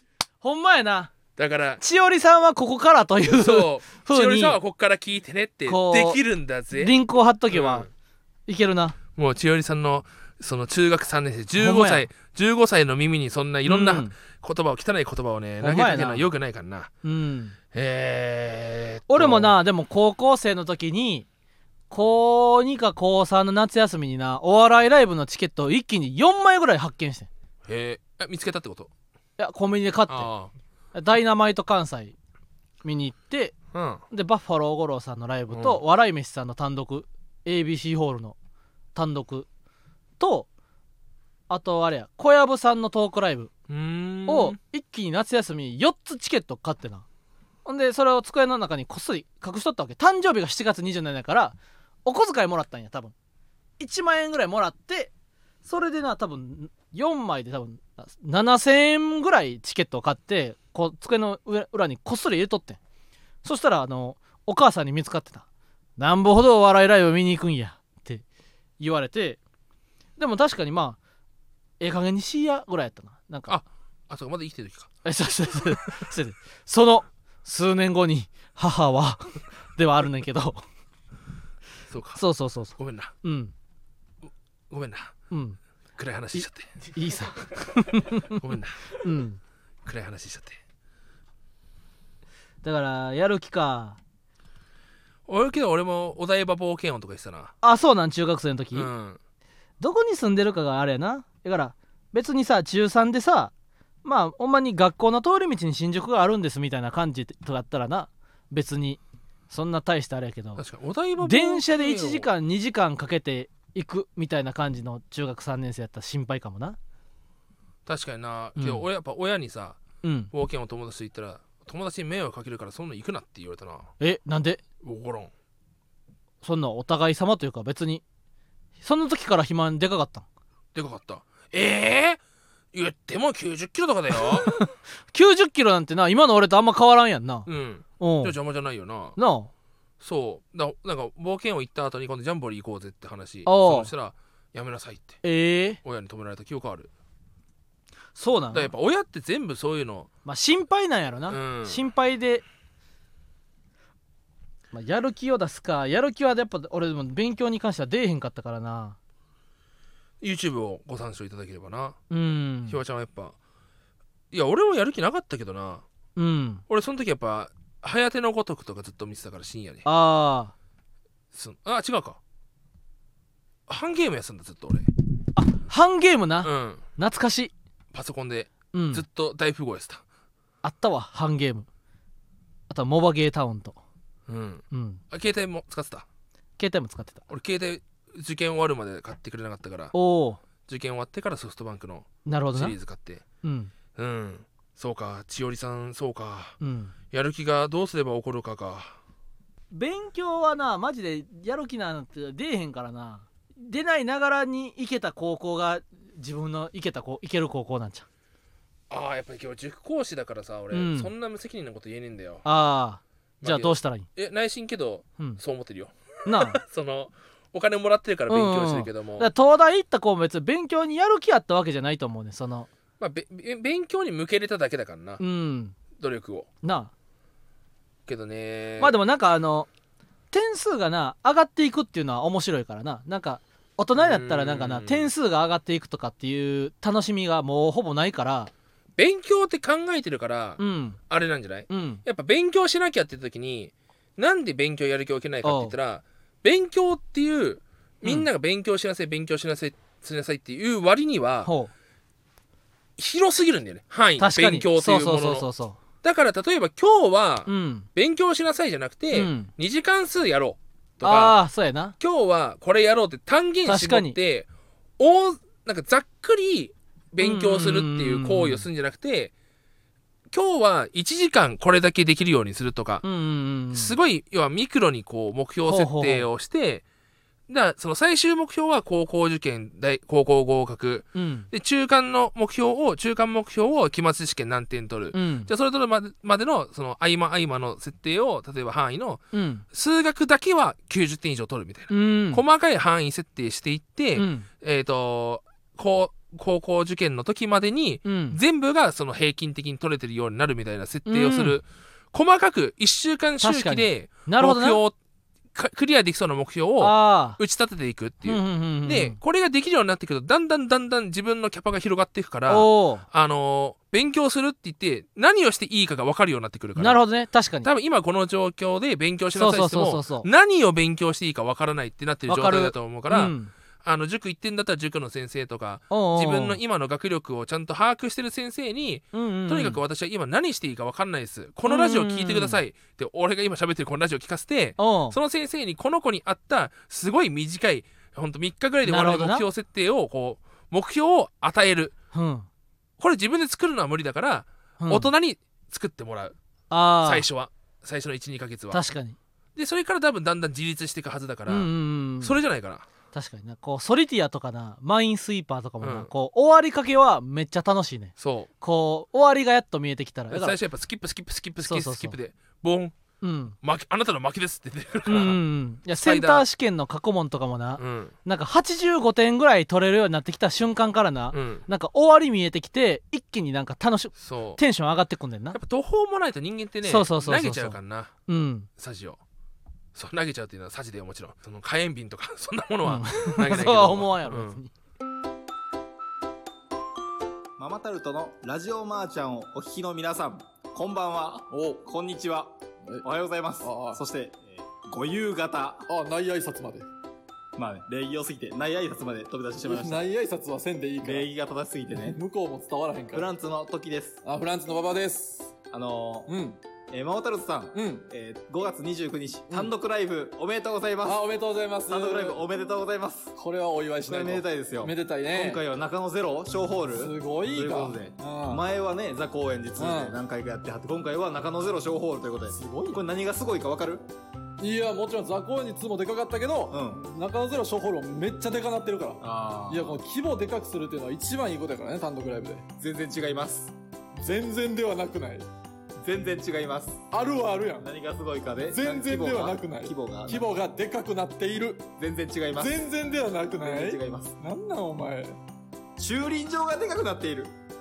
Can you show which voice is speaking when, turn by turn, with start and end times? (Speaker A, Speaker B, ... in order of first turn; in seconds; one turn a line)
Speaker A: 0.4-1.1
Speaker B: 1.4-1.8
Speaker A: 1.8-4.6
Speaker B: 3.2-6.9
Speaker A: 5.7-6.2
Speaker A: 6.7-7.9
Speaker B: 7.5-7.9
Speaker A: 8.5-9.0
Speaker B: 9.2-16.9
Speaker A: 11.6-12.1
Speaker A: 13.7-14.1
Speaker A: 15.6-16.2
Speaker A: 17.0-17.6
Speaker B: 17.7-19.5
Speaker A: 19.1-21.3
Speaker A: 21.9-27.3
Speaker B: 27.6-28.9
Speaker A: 29.4-30.3
Speaker B: 30.1-30.5
Speaker A: 30.9-32.1
Speaker A: 32.8-33.5
Speaker B: 33.7-34.0
Speaker A: 34.1-38.4
Speaker B: 35.5-35.8
Speaker A: 38.9-39.5
Speaker A: 40.2-40.5
Speaker A: 41.5-43.5
Speaker B: 43.7-44.6
Speaker A: 44.3-47.0
Speaker A: 47.6-53.1
Speaker A: 53.8-55.1
Speaker A: 55.6-62.8
Speaker A: 63.4-65.4
Speaker A: 66.0-68.2
Speaker A: 68.8-69.4
Speaker A: 70.2-71.0
Speaker A: 71.8-73.5
Speaker B: 73.5-74.9
Speaker A: 75.0-80.6
Speaker B: 81.9-82.2
Speaker A: 82.2-83.5
Speaker B: 82.7-83.1
Speaker B: 84.7-85.1
Speaker A: 85.3-85.6
Speaker B: 86.0-86.7
Speaker A: 86.3-88.4
Speaker B: 88.2-88.9
Speaker A: 88.9-89.4
Speaker B: 89.8-90.6
Speaker A: 92.6-94.0
Speaker B: 95.3-97.5
Speaker A: 97.6-98.9
Speaker B: 98.7-99.2
Speaker A: 99.8-103.5
Speaker A: 104.0-110.6
Speaker B: 110.6-112.3
Speaker A: 111.2-116.8
Speaker B: 117.8-119.8
Speaker A: 118.5-118.8
Speaker A: 120.0-120.3
Speaker B: 120.3-123.9
Speaker A: 124.0-124.6
Speaker B: 124.8-125.3
Speaker A: 126.4-128.0
Speaker A: 128.8-130.2
Speaker B: 130.7-132.2
Speaker B: 132.7-134.6
Speaker A: 134.1-137.5
Speaker B: 137.4-139.2
Speaker A: 138.0-138.3
Speaker A: 139.2-139.5
Speaker B: 140.0-145.2
Speaker A: 143.4-143.9
Speaker A: 145.2-145.8
Speaker B: 145.8-146.9
Speaker A: 148.2-148.7
Speaker B: 148.5-150.1
Speaker A: 150.2-152.4
Speaker B: 151.3-151.8
Speaker A: 154.7-159.0
Speaker B: 160.2-162.0
Speaker A: 162.1-162.8
Speaker B: 162.7-163.3
Speaker B: 164.3-165.8
Speaker A: 166.2-166.6
Speaker B: 166.7-169.8
Speaker A: 169.8-170.5
Speaker B: 171.3-172.2
Speaker B: 173.7-174.9
Speaker A: 175.3-177.5
Speaker B: 176.4-176.8
Speaker B: 177.9-180.0
Speaker A: 178.7-179.0
Speaker A: 180.6-181.7
Speaker A: 182.7-183.8
Speaker B: 184.3-186.1
Speaker A: 184.7-185.0
Speaker A: 186.6-187.2
Speaker B: 187.3-189.9
Speaker A: 189.9-190.4
Speaker B: 190.6-193.2
Speaker A: 192.2-192.8
Speaker A: 193.4-193.7
Speaker B: 193.9-196.6
Speaker A: 196.6-196.9
Speaker B: 197.1-198.9
Speaker A: 199.7-208.1
Speaker B: 208.9-212.4
Speaker A: 210.7-211.1
Speaker A: 212.4-214.1
Speaker B: 213.4-219.3
Speaker A: 216.2-216.6
Speaker A: 218.3-222.7
Speaker B: 223.0-225.2
Speaker A: 225.2-225.8
Speaker B: 226.0-226.5
Speaker A: 226.6-226.9
Speaker B: 228.1-228.9
Speaker A: 228.8-229.7
Speaker A: 230.3-238.5
Speaker B: 233.9-235.1
Speaker B: 239.0-251.5
Speaker A: 240.6-241.0
Speaker A: 241.7-242.0
Speaker A: 245.4-245.7
Speaker A: 251.4-251.7
Speaker B: 253.0-255.5
Speaker A: 254.2-255.8
Speaker B: 256.0-261.4
Speaker A: 257.5-257.9
Speaker A: 259.1-259.5
Speaker A: 261.0-261.9
Speaker B: 262.0-269.3
Speaker A: 263.6-264.1
Speaker A: 267.2-268.6
Speaker B: 270.3-273.0
Speaker A: 273.0-273.9
Speaker B: 273.7-276.8
Speaker A: 275.7-276.3
Speaker B: 277.5-304.9
Speaker A: 281.1-281.5
Speaker A: 285.1-285.5
Speaker A: 289.3-289.6
Speaker A: 291.9-292.4
Speaker A: 294.1-294.5
Speaker A: 298.0-298.4
Speaker A: 301.1-301.6
Speaker A: 303.4-304.8
Speaker B: 305.5-317.0
Speaker A: 306.8-307.4
Speaker A: 308.2-309.2
Speaker A: 312.5-313.0
Speaker A: 316.8-317.7
Speaker B: 317.6-341.9
Speaker A: 319.3-320.3
Speaker A: 322.3-323.5
Speaker A: 325.9-326.6
Speaker A: 329.1-329.8
Speaker A: 331.6-332.6
Speaker A: 334.8-335.2
Speaker A: 338.9-339.4
Speaker A: 342.1-342.5
Speaker B: 343.0-346.3
Speaker A: 344.8-345.1
Speaker A: 346.7-347.2
Speaker B: 347.0-348.8
Speaker A: 348.7-349.2
Speaker B: 349.6-352.9
Speaker A: 351.5-352.3
Speaker A: 353.1-360.6
Speaker B: 355.8-356.1
Speaker B: 358.2-358.5
Speaker B: 360.3-362.9
Speaker A: 361.6-362.1
Speaker A: 363.2-363.6
Speaker B: 363.6-365.4
Speaker A: 365.1-375.6
Speaker B: 365.9-366.4
Speaker B: 367.8-368.1
Speaker B: 371.3-371.6
Speaker B: 374.2-374.6
Speaker B: 375.5-378.1
Speaker A: 376.8-378.7
Speaker B: 378.8-379.2
Speaker B: 379.9-384.6
Speaker A: 382.8-384.7
Speaker C: 387.6-395.9
Speaker D: 391.5-391.8
Speaker D: 393.6-394.0
Speaker D: 395.9-396.9
Speaker C: 397.6-400.0
Speaker D: 399.6-401.3
Speaker C: 401.0-402.2
Speaker D: 401.9-403.3
Speaker C: 403.1-404.2
Speaker D: 404.2-405.5
Speaker C: 405.7-406.3
Speaker D: 406.3-406.6
Speaker C: 406.9-411.2
Speaker D: 407.7-408.1
Speaker D: 411.0-412.4
Speaker C: 411.9-413.3
Speaker D: 413.4-415.6
Speaker C: 414.1-424.1
Speaker D: 416.9-418.6
Speaker D: 419.8-420.2
Speaker D: 422.5-423.0
Speaker D: 424.6-432.7
Speaker C: 426.7-427.0
Speaker C: 429.2-430.0
Speaker C: 432.8-433.7
Speaker D: 434.2-435.4
Speaker C: 436.0-437.0
Speaker D: 437.1-437.9
Speaker C: 437.8-440.4
Speaker D: 438.6-441.9
Speaker C: 442.0-442.7
Speaker D: 442.6-445.4
Speaker C: 443.6-444.3
Speaker C: 446.0-447.5